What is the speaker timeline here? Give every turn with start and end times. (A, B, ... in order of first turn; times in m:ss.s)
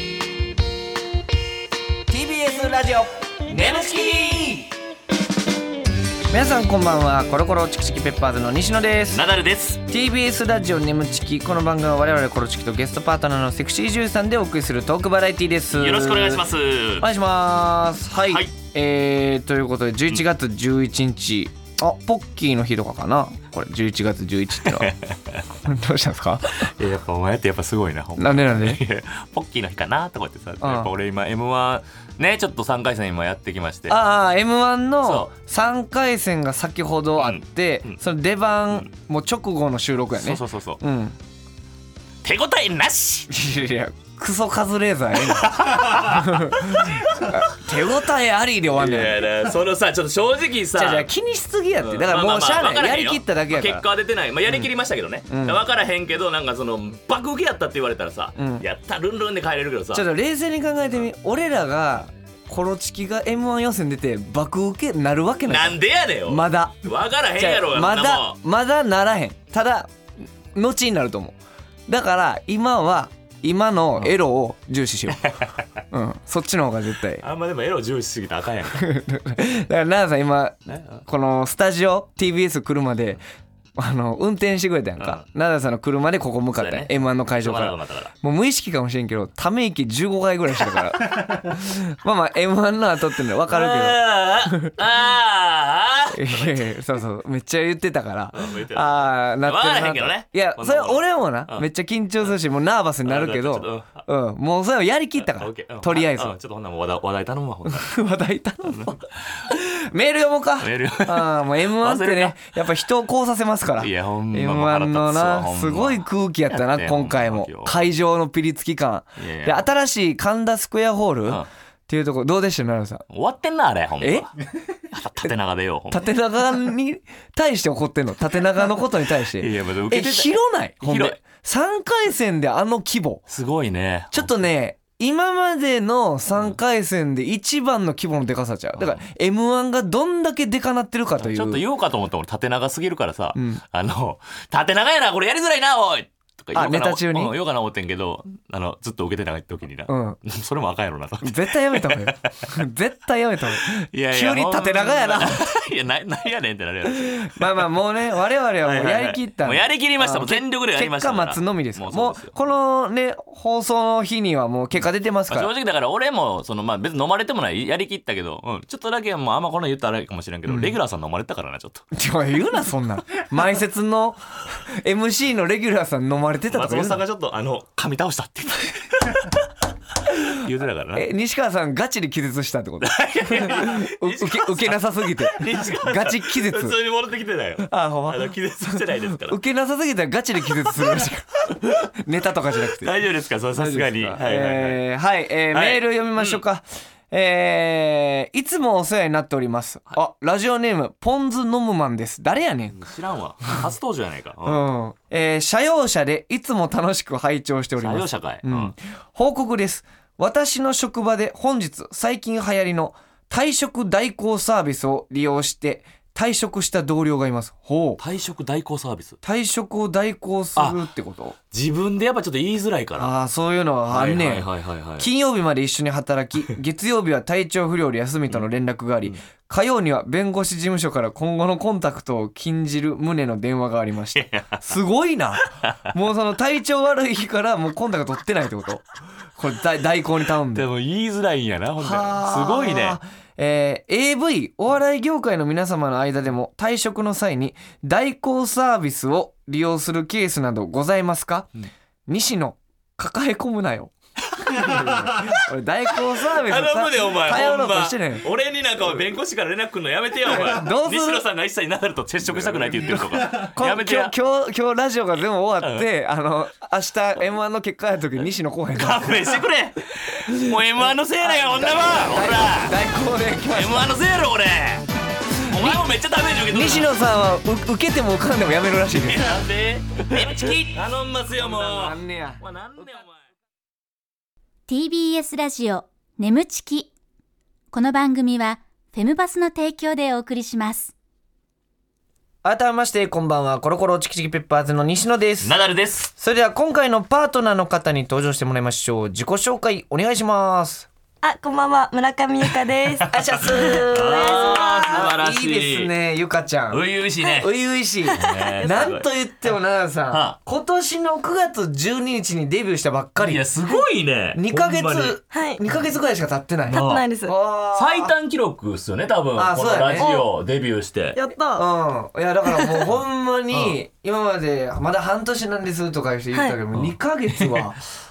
0:02.1-0:04.7 A
0:06.3-0:09.2 A
0:09.1-0:09.8 B
0:09.8-0:16.4 A
0:15.7-0:17.1 B
0:17.0-0:24.9 A
0:24.7-0:25.4 B
0:25.6-0:26.7 A
0:26.6-0:34.0 B
0:28.2-0:28.8 A
0:30.6-0:30.9 A
0:33.9-0:41.2 A
0:35.0-0:35.3 B
0:37.2-0:38.0 B
0:40.2-0:40.8 B
0:42.2-0:43.3 B
0:43.3-0:49.3 A
0:45.3-0:47.4 B
0:48.7-0:51.1 B
0:50.8-0:53.8 A
0:51.8-1:00.1 B
0:55.3-0:55.6 A
0:58.4-0:58.6 A
0:59.9-1:06.8 A
1:05.5-1:08.4 B
1:07.4-1:09.9 A
1:10.5-1:11.4 A
1:11.9-1:15.4 A
1:15.9-1:17.2 A
1:17.2-1:18.9 B
1:18.8-1:23.2 A
1:20.7-1:21.0 B
1:23.8-1:34.7 A
1:25.0-1:25.2 B
1:26.6-1:26.9 B
1:27.4-1:28.1 B
1:33.5-1:36.8 B
1:36.1-1:46.3 A
1:38.3-1:41.7 B
1:43.0-1:44.0 B
1:45.3-1:48.0 B
1:47.7-2:03.1 A
1:48.7-1:49.5 B
1:50.6-1:52.4 B
1:53.8-1:57.8 B
1:59.2-1:59.7 B
2:03.1-2:04.3 B
2:04.0-2:04.3 A
2:04.9-2:06.1 B
2:05.9-2:13.2 A
2:09.4-2:11.2 B
2:13.3-2:14.4 B
2:14.1-2:21.6 A
2:21.2-2:32.6 B
2:23.4-2:23.6 A
2:26.5-2:27.4 A
2:29.9-2:30.2 A
2:31.2-2:35.4 A
2:33.9-2:37.7 B
2:36.9-2:45.5 A
2:38.6-2:42.4 B
2:45.3-2:51.9 B
2:50.5-2:50.8 A
2:51.9-2:57.0 A
2:56.5-2:59.4 B
3:00.2-3:01.1 B
3:01.0-3:06.8 A
3:02.8-3:09.4 B
3:07.6-3:12.9 A
3:12.8-3:14.8 B
3:13.5-3:22.8 A
3:15.5-3:16.4 B
3:22.7-3:24.6 B
3:24.4-3:38.0 A
3:27.8-3:28.7 B
3:38.0-3:39.2 B
3:39.2-3:41.4 A
3:40.6-3:40.8 B
3:41.5-3:43.1 B
3:43.0-3:44.5 A
3:43.9-3:45.1 B
3:45.0-3:58.8 A
3:54.2-3:54.6 B
3:55.6-3:55.9 B
3:59.4-4:00.7 A
4:00.6-4:03.0 B
4:01.8-4:11.5 A
4:12.1-4:13.9 A
4:14.4-4:15.4 B
4:14.5-4:18.3 A
4:16.3-4:24.1 B
4:20.2-4:21.2 A
4:22.3-4:29.4 A
4:25.6-4:25.9 B
4:28.7-4:32.8 B
4:30.3-4:30.6 A
4:31.2-4:34.0 A
4:33.5-4:36.9 B
4:35.5-4:35.8 A
4:36.5-4:39.4 A
4:39.1-4:43.2 B
4:40.2-4:40.4 A
4:41.3-4:42.4 A
4:44.7-4:46.9 C
4:47.7-4:50.9 C
4:52.4-4:55.6 A
4:55.4-4:56.1 B
4:56.2-5:00.9 A
5:01.2-5:05.1 D
5:03.1-5:13.5 A
5:03.2-5:05.9 B
5:06.7-5:07.5 B
5:08.1-5:09.0 D
5:08.1-5:09.1 B
5:10.1-5:10.4 B
5:13.2-5:15.2 B
5:14.3-5:18.1 A
5:15.3-5:15.6 D
5:16.7-5:17.0 B
5:16.7-5:17.3 D
5:17.7-5:21.2 B
5:19.4-5:20.2 A
5:20.0-5:20.3 D
5:21.2-5:21.7 D
5:21.5-5:27.8 A
5:22.5-5:22.8 D
5:23.5-5:23.8 B
5:26.7-5:27.6 B